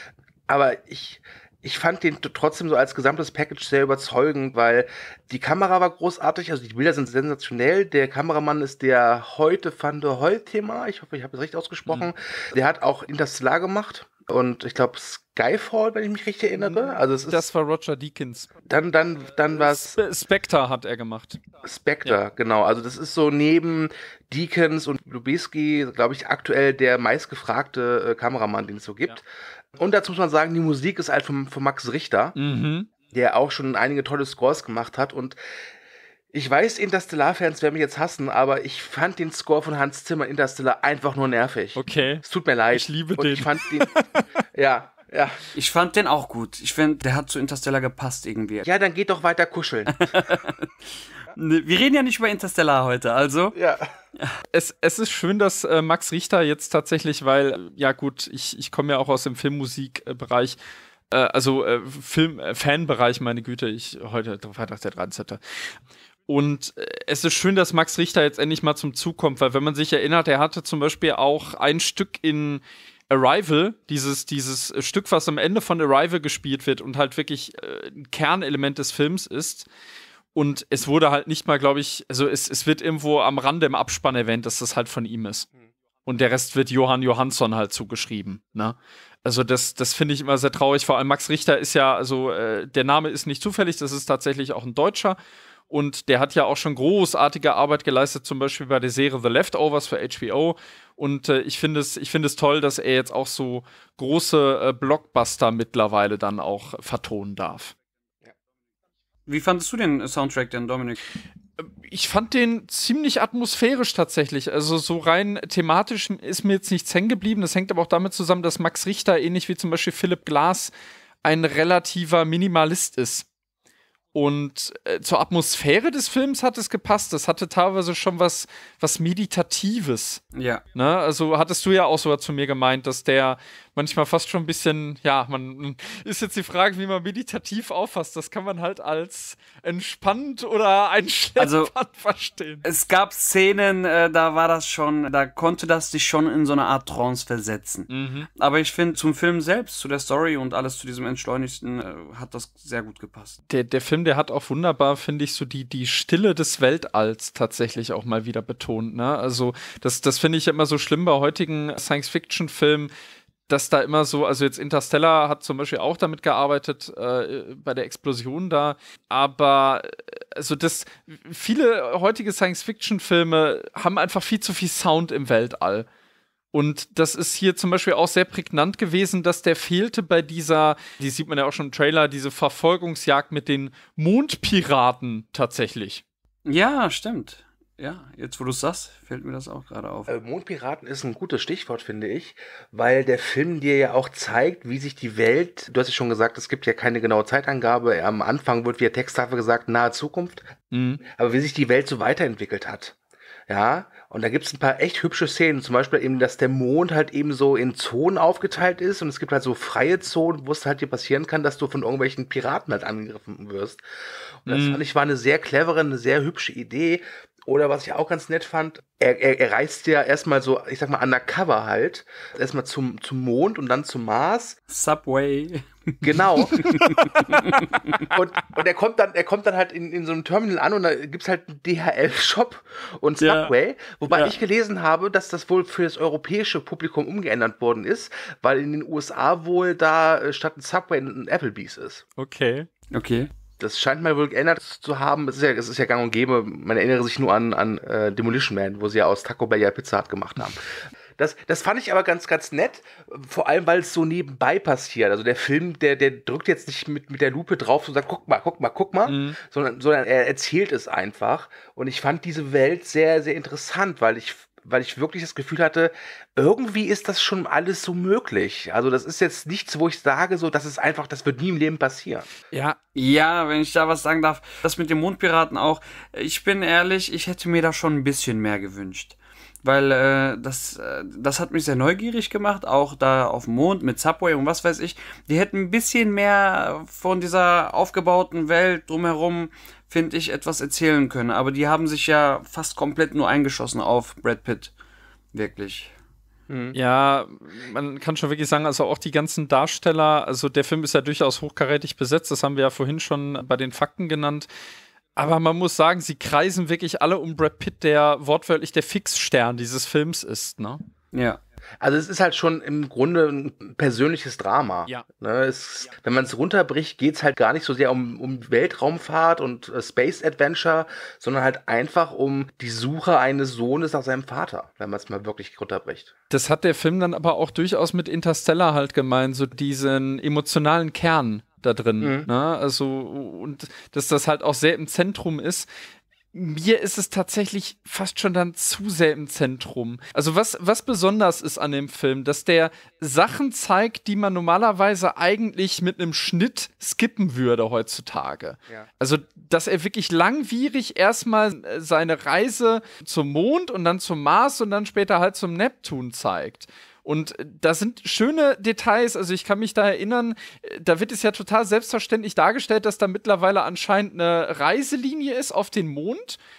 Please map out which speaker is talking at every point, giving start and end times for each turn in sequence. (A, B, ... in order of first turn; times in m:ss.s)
0:00.5-0:17.5 A
0:16.6-0:18.5 B
0:18.7-0:20.0 A
0:19.5-0:21.4 B
0:21.6-0:29.2 A
0:29.8-0:32.4 A
0:32.4-0:32.9 B
0:33.1-0:35.4 A
0:36.3-0:45.4 A
0:41.8-0:44.0 B
0:45.5-0:48.6 C
0:48.6-0:50.2 A
0:50.0-0:50.7 C
0:51.3-0:53.6 C
0:53.5-0:53.8 A
0:54.5-1:00.6 B
1:01.1-1:05.4 B
1:06.3-1:19.7 B
1:20.3-1:25.5 B
1:26.0-1:35.2 B
1:35.7-1:47.7 B
1:49.3-1:51.0 C
1:51.6-2:00.7 B
2:01.2-2:03.3 B
2:04.1-2:10.2 B
2:10.3-2:10.6 C
2:10.7-2:22.6 B
2:21.4-2:21.7 C
2:22.6-2:33.4 C
2:27.9-2:28.3 B
2:33.5-2:42.9 B
2:43.5-2:55.9 B
2:56.5-3:06.0 B
3:06.4-3:10.1 C
3:10.1-3:20.4 A
3:20.7-3:21.0 B
3:21.2-3:22.9 A
3:23.5-3:33.8 A
3:34.4-3:44.6 A
3:34.5-3:34.8 B
3:44.7-3:48.0 C
3:46.0-3:47.4 A
3:48.0-4:02.0 A
3:53.2-3:53.5 C
3:54.1-3:54.3 C
4:02.2-4:02.7 B
4:02.9-4:03.3 C
4:03.6-4:10.6 A
4:11.2-4:32.3 A
4:19.1-4:19.4 B
4:32.5-4:32.8 B
4:32.9-4:54.7 C
4:55.3-4:55.9 C
4:56.5-4:56.8 A
4:56.7-5:04.5 B
5:05.2-5:10.8 B
5:11.1-5:11.4 C
5:11.8-5:26.1 A
5:26.3-5:35.7 B
5:32.0-5:32.3 A
5:36.3-6:06.4 B